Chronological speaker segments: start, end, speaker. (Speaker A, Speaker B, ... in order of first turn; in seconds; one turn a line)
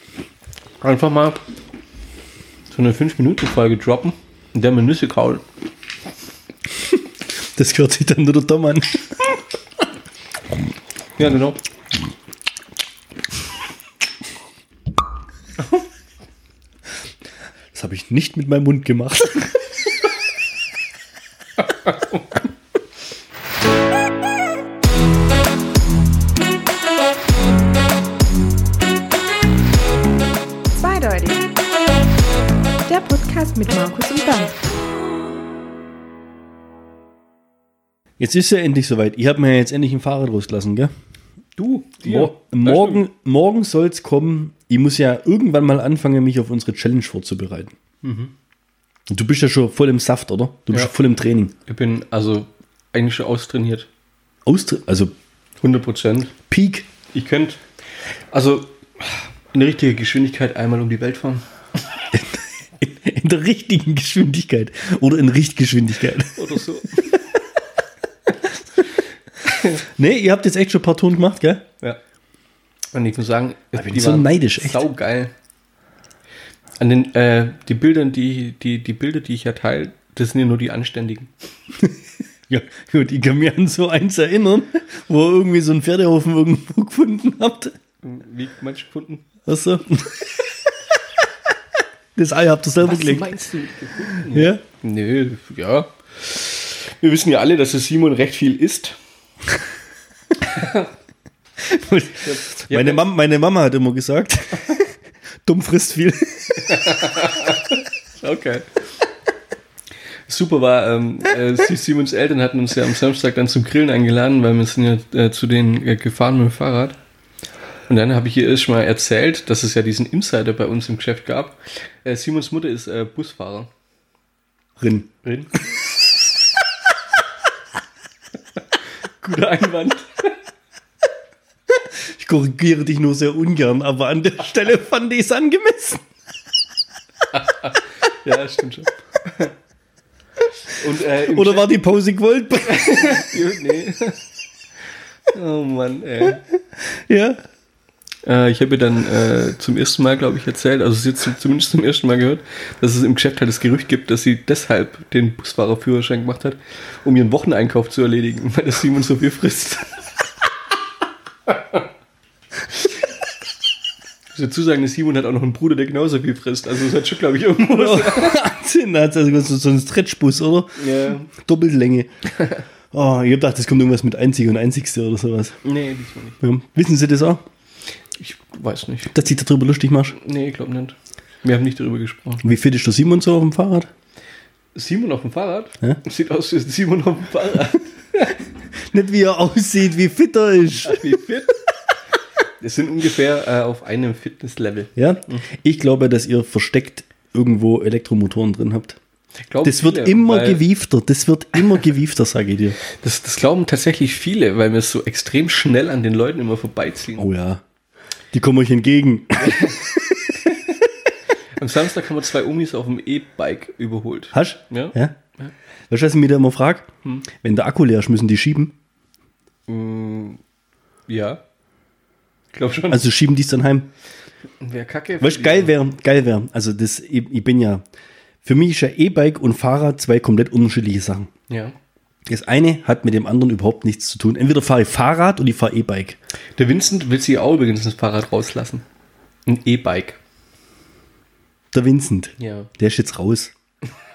Speaker A: 0.8-1.4
Speaker A: 2.7-5.4
Speaker B: 6.9-9.3
Speaker A: 11.2-11.6
Speaker B: 17.7-19.6
Speaker A: 21.9-22.2
Speaker C: 30.7-31.5
Speaker C: 32.9-34.6
Speaker B: 38.2-40.9
Speaker A: 41.6-43.0
Speaker B: 42.0-47.7
Speaker A: 48.0-48.3
Speaker B: 49.1-51.5
Speaker A: 51.7-53.9
Speaker B: 54.5-55.1
Speaker A: 55.6-56.3
Speaker B: 56.5-56.9
Speaker A: 57.1-57.6
Speaker A: 58.3-61.4
Speaker B: 62.1-66.5
Speaker A: 66.3-67.0
Speaker A: 69.5-69.8
Speaker B: 69.8-71.6
Speaker A: 72.9-75.3
Speaker B: 73.7-74.8
Speaker A: 76.8-81.3
Speaker B: 82.5-87.7
Speaker A: 88.0-89.3
Speaker B: 89.5-90.3
Speaker B: 92.2-93.3
Speaker A: 92.8-99.0
Speaker B: 94.3-94.6
Speaker A: 100.5-100.9
Speaker B: 101.6-104.9
Speaker A: 102.2-103.0
Speaker B: 105.4-106.8
Speaker A: 106.6-108.7
Speaker A: 110.3-117.0
Speaker A: 117.9-123.7
Speaker B: 124.8-125.1
Speaker A: 125.2-125.7
Speaker A: 129.2-130.3
Speaker B: 131.8-136.0
Speaker A: 137.3-139.5
Speaker A: 140.7-141.7
Speaker B: 141.3-143.2
Speaker A: 142.6-144.2
Speaker A: 145.3-146.4
Speaker B: 146.9-147.4
Speaker A: 148.2-159.9
Speaker A: 164.3-168.4
Speaker B: 167.6-172.1
Speaker A: 170.8-171.3
Speaker B: 172.9-175.6
Speaker A: 175.6-176.4
Speaker B: 176.4-177.4
Speaker A: 178.2-179.1
Speaker B: 179.1-180.2
Speaker A: 180.2-182.4
Speaker B: 182.4-183.9
Speaker A: 184.7-188.3
Speaker B: 188.8-191.1
Speaker A: 190.8-191.5
Speaker A: 192.6-195.4
Speaker B: 194.9-199.0
Speaker A: 199.5-200.6
Speaker B: 199.6-202.8
Speaker A: 202.9-207.3
Speaker B: 207.2-207.6
Speaker B: 208.3-210.4
Speaker A: 211.6-215.5
Speaker B: 214.3-215.2
Speaker B: 215.9-218.7
Speaker A: 219.7-220.4
Speaker A: 221.1-221.4
Speaker A: 222.5-223.0
Speaker B: 222.9-223.9
Speaker A: 224.6-225.7
Speaker B: 225.2-227.8
Speaker B: 228.4-231.3
Speaker A: 231.5-231.7
Speaker B: 232.2-236.2
Speaker A: 236.6-238.8
Speaker A: 239.4-240.2
Speaker B: 241.7-243.5
Speaker A: 242.4-242.7